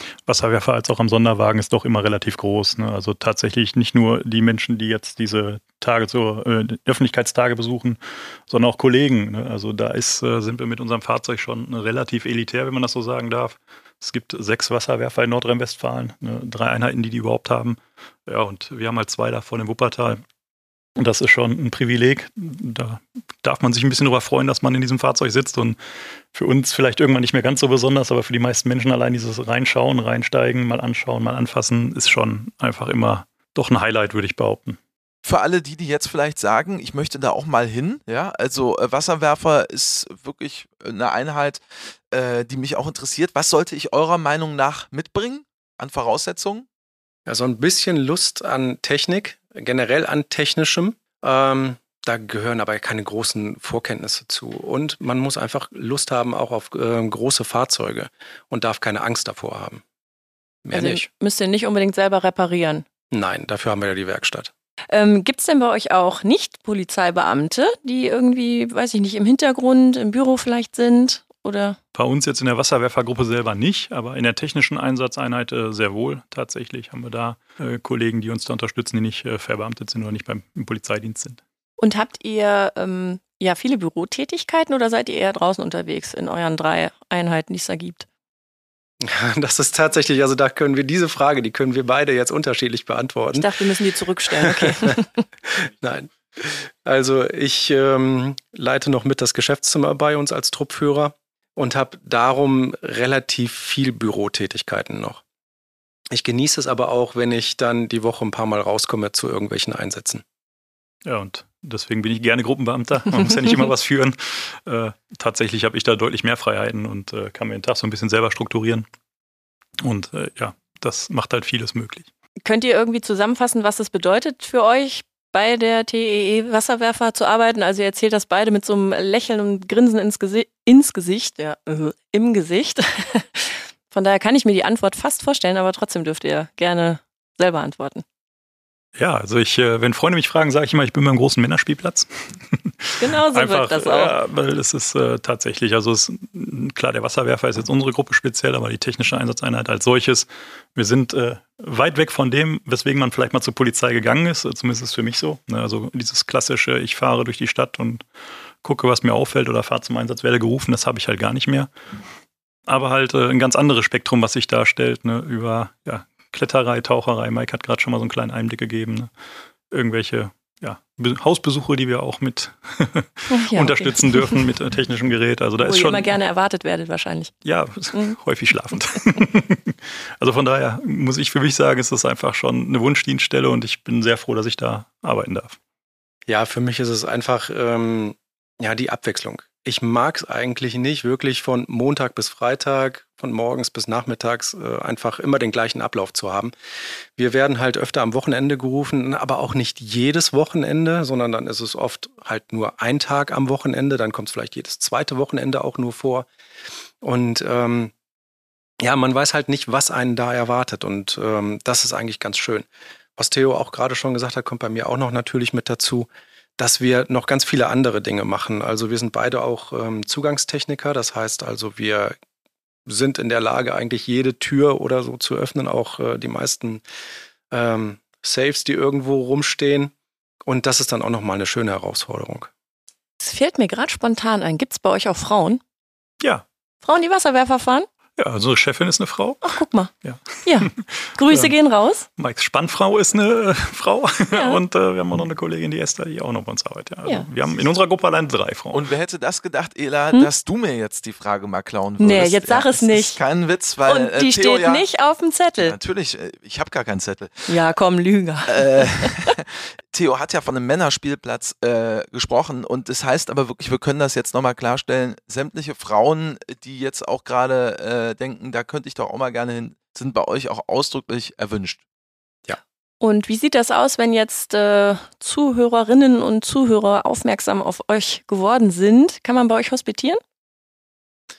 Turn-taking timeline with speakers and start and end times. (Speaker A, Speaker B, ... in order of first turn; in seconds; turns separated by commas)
Speaker A: 0.3-20.2, Speaker A: 21.0-25.8, Speaker A: 26.3-34.8, Speaker B: 35.2-46.7, Speaker C: 47.3-59.8, Speaker C: 60.6-61.1, Speaker D: 60.7-62.9, Speaker C: 63.1-64.5, Speaker D: 64.9-71.8, Speaker A: 71.9-81.4, Speaker D: 81.8-88.1, Speaker C: 89.0-93.5, Speaker D: 93.3-95.2, Speaker C: 94.3-105.2, Speaker C: 106.1-110.2, Speaker A: 111.0-118.9, Speaker A: 119.8-122.1, Speaker D: 122.5-138.0, Speaker A: 139.0-158.1, Speaker D: 143.0-144.2, Speaker A: 158.6-161.7, Speaker A: 162.7-169.1, Speaker A: 169.7-176.2, Speaker D: 173.3-174.4, Speaker D: 175.6-177.3, Speaker A: 177.4-185.6, Speaker C: 186.3-196.5, Speaker C: 197.2-206.3, Speaker C: 207.0-207.9, Speaker C: 208.8-222.2, Speaker C: 222.9-226.8, Speaker C: 227.5-229.9, Speaker C: 230.4-232.5, Speaker D: 233.2-235.6, Speaker D: 236.8-237.9, Speaker A: 238.2-241.5, Speaker D: 239.4-239.9, Speaker D: 240.4-242.1, Speaker A: 242.2-248.8, Speaker D: 244.3-244.6, Speaker B: 248.7-254.8, Speaker D: 252.0-253.2, Speaker D: 253.9-255.8, Speaker B: 255.6-257.5, Speaker D: 257.5-259.3, Speaker B: 258.5-271.8, Speaker D: 273.0-280.2